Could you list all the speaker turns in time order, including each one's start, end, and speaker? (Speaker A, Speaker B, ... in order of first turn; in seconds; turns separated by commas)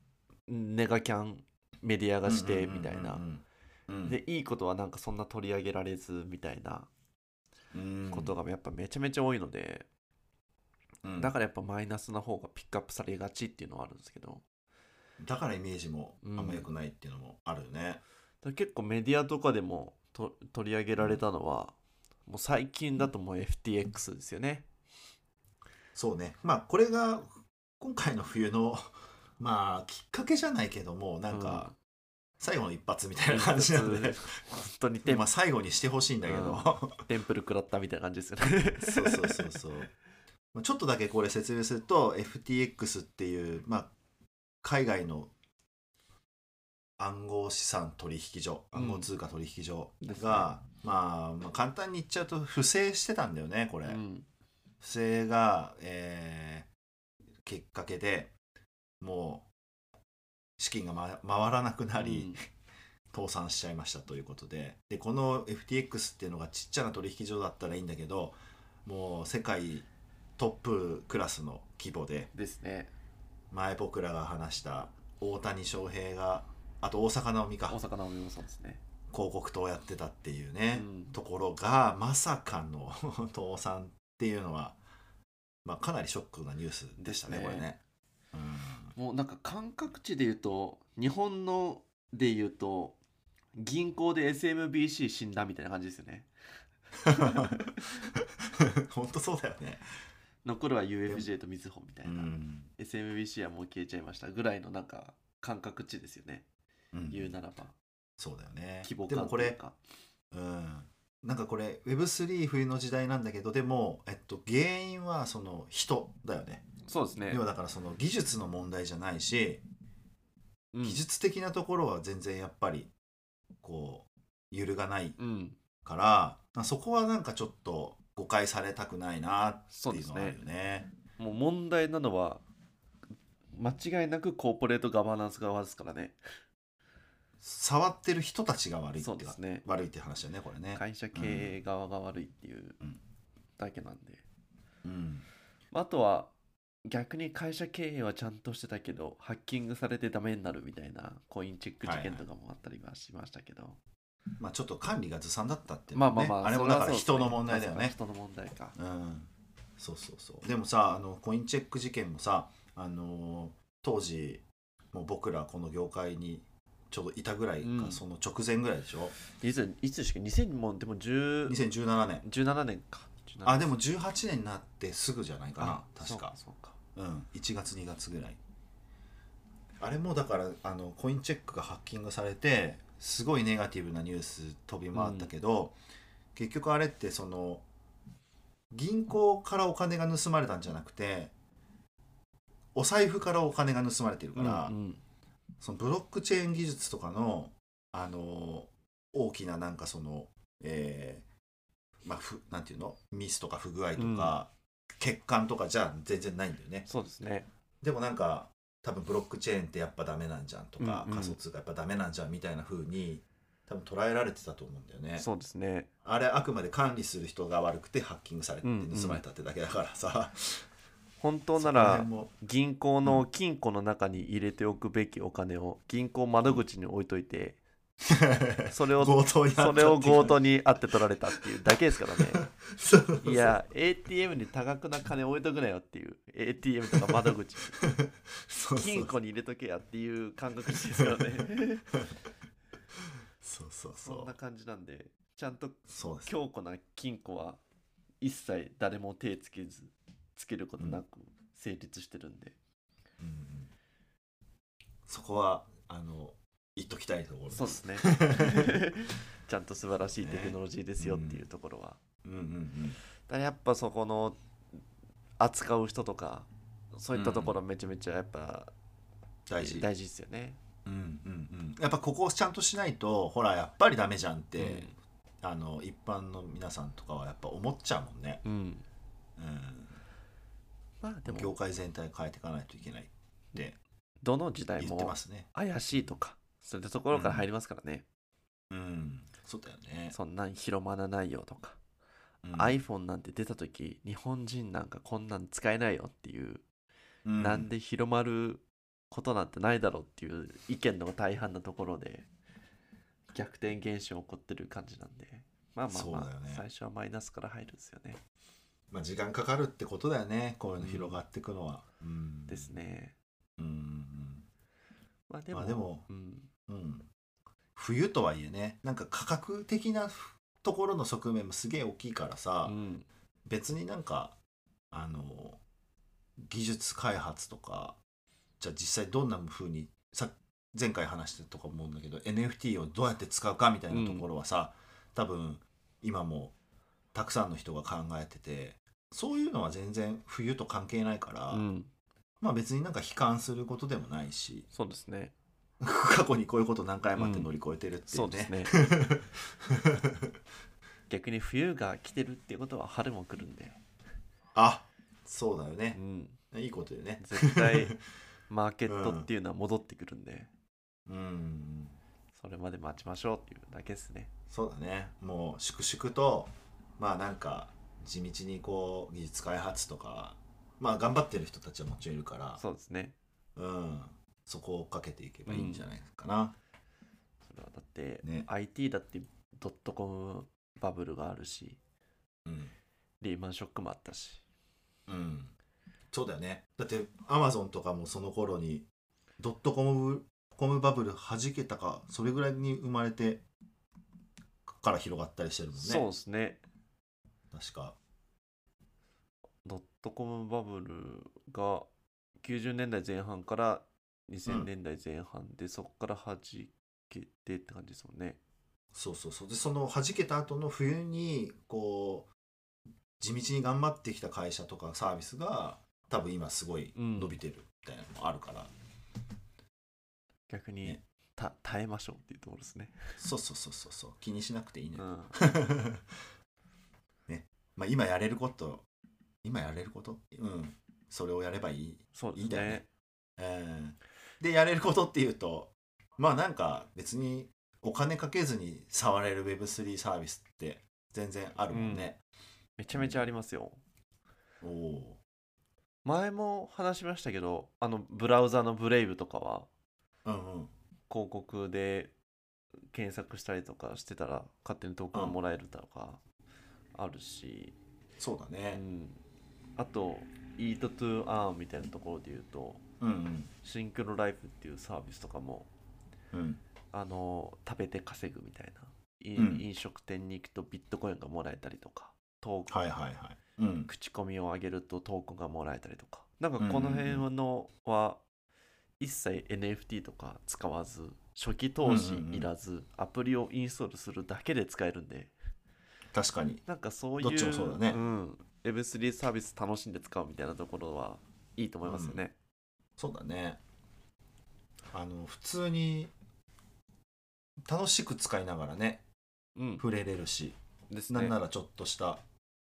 Speaker A: 0.5-3.2, Speaker B: 2.2-4.2, Speaker A: 4.0-6.9, Speaker B: 7.7-8.3, Speaker A: 8.1-9.9, Speaker B: 11.0-11.3, Speaker A: 11.2-14.4, Speaker B: 15.2-18.0, Speaker A: 16.2-16.7, Speaker A: 18.4-21.8, Speaker A: 22.3-24.7, Speaker B: 25.9-31.7, Speaker A: 31.3-31.8, Speaker B: 32.4-34.4, Speaker A: 33.3-35.3, Speaker B: 35.0-37.0, Speaker A: 36.2-39.6, Speaker B: 38.8-39.9, Speaker B: 40.5-43.9, Speaker B: 44.6-45.3, Speaker B: 47.0-54.0, Speaker A: 48.7-49.1, Speaker A: 50.0-50.5, Speaker A: 53.9-54.3, Speaker B: 54.8-56.7, Speaker B: 57.5-58.3, Speaker B: 59.0-59.5, Speaker B: 60.6-62.4, Speaker A: 62.0-62.4, Speaker B: 63.1-72.3, Speaker A: 72.3-72.9, Speaker B: 73.5-77.8, Speaker A: 77.7-78.8, Speaker B: 79.1-84.8, Speaker A: 80.7-81.2, Speaker B: 85.7-87.8, Speaker A: 87.0-87.7, Speaker B: 88.3-89.0, Speaker A: 89.0-93.0, Speaker A: 93.6-96.3, Speaker B: 97.1-97.6, Speaker A: 97.1-97.8, Speaker B: 98.6-99.8, Speaker A: 100.4-106.5, Speaker B: 102.0-102.7, Speaker B: 106.9-107.4, Speaker A: 107.1-107.8, Speaker B: 108.2-109.6, Speaker A: 108.8-109.8, Speaker B: 110.3-116.6, Speaker A: 116.9-117.4, Speaker B: 117.3-119.6, Speaker A: 120.7-121.0, Speaker B: 120.8-122.9, Speaker B: 123.6-125.2, Speaker A: 125.2-125.6, Speaker B: 125.8-130.9, Speaker A: 129.7-130.4, Speaker A: 131.2-132.4, Speaker A: 133.6-136.2, Speaker B: 137.4-141.6, Speaker A: 139.0-139.7, Speaker A: 140.7-142.8, Speaker A: 143.6-144.2, Speaker B: 144.8-145.3, Speaker A: 145.7-146.3, Speaker A: 146.9-153.8, Speaker B: 151.8-152.2, Speaker B: 154.4-157.9, Speaker A: 155.9-158.8, Speaker B: 158.8-169.2, Speaker A: 167.6-168.0, Speaker A: 169.3-171.6, Speaker B: 171.5-172.2, Speaker A: 172.2-173.7, Speaker B: 173.4-176.3, Speaker A: 175.6-176.8, Speaker B: 177.0-178.4, Speaker B: 179.8-185.8, Speaker A: 184.9-185.3, Speaker B: 186.3-187.7, Speaker B: 188.7-191.3, Speaker B: 192.8-194.7, Speaker A: 194.3-195.0, Speaker B: 195.6-201.3, Speaker B: 202.0-206.9, Speaker A: 204.0-204.4, Speaker A: 206.9-207.5, Speaker B: 207.8-215.3, Speaker A: 210.8-211.4, Speaker A: 215.2-215.9, Speaker B: 216.1-220.7, Speaker A: 218.6-219.2, Speaker A: 221.2-227.6, Speaker B: 221.6-222.3, Speaker B: 228.1-230.4, Speaker A: 228.7-232.4, Speaker B: 232.4-233.5, Speaker A: 233.2-237.8, Speaker B: 236.9-239.1, Speaker A: 238.7-241.8, Speaker B: 243.4-244.3, Speaker A: 244.0-247.6, Speaker B: 245.9-246.3, Speaker A: 248.2-252.6, Speaker B: 253.2-253.7, Speaker B: 255.1-258.8, Speaker A: 257.5-262.0, Speaker B: 260.2-261.4, Speaker B: 262.2-263.0, Speaker A: 263.3-264.4, Speaker A: 265.4-268.7, Speaker B: 267.1-267.6, Speaker B: 269.5-269.9, Speaker A: 269.6-270.6, Speaker B: 270.9-278.4, Speaker A: 274.6-274.9, Speaker A: 278.4-278.9, Speaker B: 279.4-280.0, Speaker A: 281.0-281.6, Speaker B: 281.3-283.8, Speaker A: 284.2-288.1, Speaker B: 284.8-285.5, Speaker B: 287.1-287.5, Speaker B: 288.7-290.2, Speaker A: 290.1-291.8, Speaker B: 292.4-292.8, Speaker A: 292.5-296.6, Speaker B: 297.2-297.7, Speaker A: 297.4-302.3, Speaker A: 303.3-308.2, Speaker B: 305.9-306.6, Speaker B: 308.9-312.7, Speaker A: 310.8-311.2, Speaker A: 312.5-313.1, Speaker B: 313.6-314.5, Speaker A: 315.3-316.5, Speaker B: 315.5-316.1, Speaker B: 316.7-317.1, Speaker B: 317.8-322.8, Speaker A: 322.6-323.1, Speaker B: 323.5-324.4, Speaker B: 324.9-325.6, Speaker B: 326.4-328.0, Speaker B: 328.6-336.6, Speaker A: 333.9-334.3, Speaker B: 337.1-341.7, Speaker A: 341.5-341.9, Speaker B: 342.4-344.7, Speaker A: 344.7-345.4, Speaker B: 345.8-350.3, Speaker A: 347.2-347.5, Speaker A: 348.1-348.8, Speaker A: 351.1-353.8, Speaker B: 354.6-356.0, Speaker A: 355.9-356.4, Speaker B: 356.5-358.0, Speaker A: 357.2-358.0, Speaker A: 358.5-360.5, Speaker B: 358.9-359.3, Speaker B: 361.1-362.0, Speaker A: 362.3-364.3, Speaker B: 364.5-372.6, Speaker A: 372.6-373.2, Speaker B: 373.6-376.6, Speaker A: 375.5-375.9, Speaker A: 377.5-381.8, Speaker B: 378.2-378.5, Speaker B: 382.5-382.7, Speaker A: 383.2-384.4, Speaker B: 385.1-385.5, Speaker B: 386.1-388.9, Speaker B: 389.4-393.4, Speaker B: 394.7-396.1, Speaker A: 395.8-396.6, Speaker B: 397.5-398.0, Speaker A: 399.6-401.9, Speaker A: 402.4-408.4, Speaker B: 408.9-412.3, Speaker B: 413.2-418.7, Speaker A: 416.9-417.4, Speaker A: 420.5-423.0, Speaker B: 423.2-426.1, Speaker A: 425.0-425.4, Speaker B: 427.3-428.9, Speaker B: 429.4-432.8, Speaker A: 432.1-432.9, Speaker B: 433.4-442.2, Speaker A: 441.7-442.1, Speaker A: 442.8-443.8, Speaker B: 442.9-443.2, Speaker B: 444.6-445.2, Speaker A: 446.1-449.7, Speaker B: 450.2-450.7, Speaker A: 451.1-452.1, Speaker A: 452.9-456.2, Speaker A: 456.9-457.8, Speaker B: 458.2-458.8, Speaker A: 458.7-459.2, Speaker A: 459.8-462.8, Speaker B: 463.0-463.5, Speaker A: 463.6-465.7, Speaker B: 466.3-466.6, Speaker A: 466.9-472.9, Speaker B: 469.4-469.6, Speaker B: 472.7-473.9, Speaker A: 473.9-478.2, Speaker B: 476.6-477.3, Speaker A: 479.0-485.3, Speaker B: 481.8-482.5, Speaker B: 486.1-486.6, Speaker A: 486.7-492.4, Speaker B: 487.2-488.0, Speaker B: 491.9-492.2, Speaker B: 493.0-493.6, Speaker B: 494.9-496.1, Speaker B: 497.7-499.0, Speaker A: 499.6-499.8, Speaker B: 499.8-500.6, Speaker A: 500.9-501.4, Speaker B: 501.1-502.2